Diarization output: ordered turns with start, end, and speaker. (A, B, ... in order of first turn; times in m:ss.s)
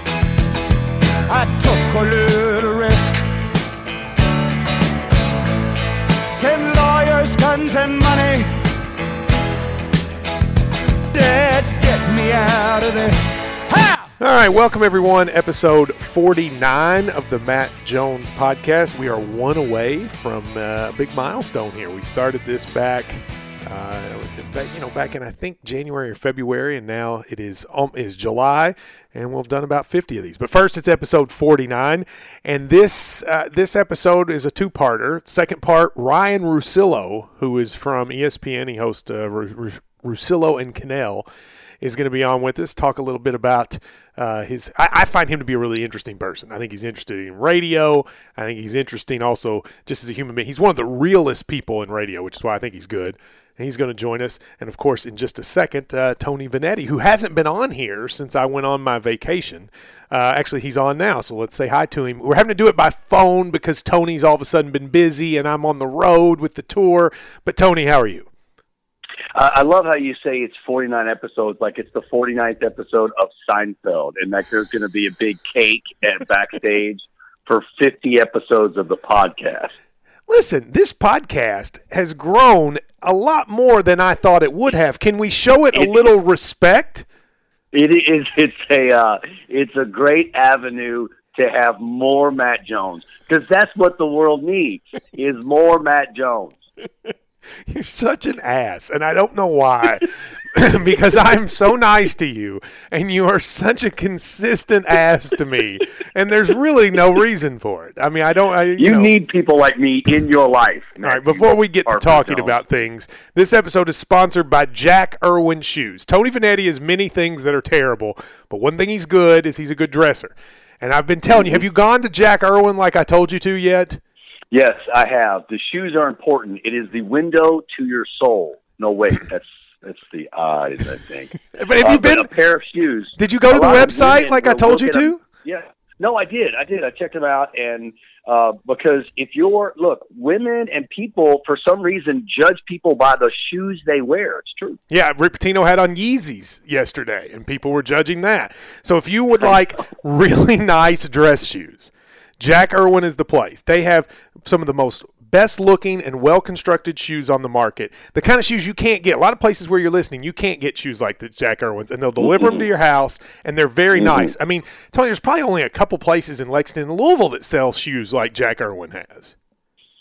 0:01.3-0:03.2 A
0:06.2-0:08.6 A
0:11.1-0:14.1 A
0:14.2-0:41.3 B
0:41.8-1:08.3 B
1:09.3-1:19.7 C
1:20.3-1:27.1 B
1:25.8-1:26.0 C
1:27.7-1:36.6 C
1:37.7-1:49.1 B
1:48.8-1:52.6 C
1:51.0-2:04.0 B
2:01.3-2:01.6 C
2:04.5-2:24.8 C
2:11.5-2:12.3 B
2:13.2-2:15.2 B
2:24.9-2:49.3 B
2:42.2-2:42.7 C
2:43.9-2:44.3 C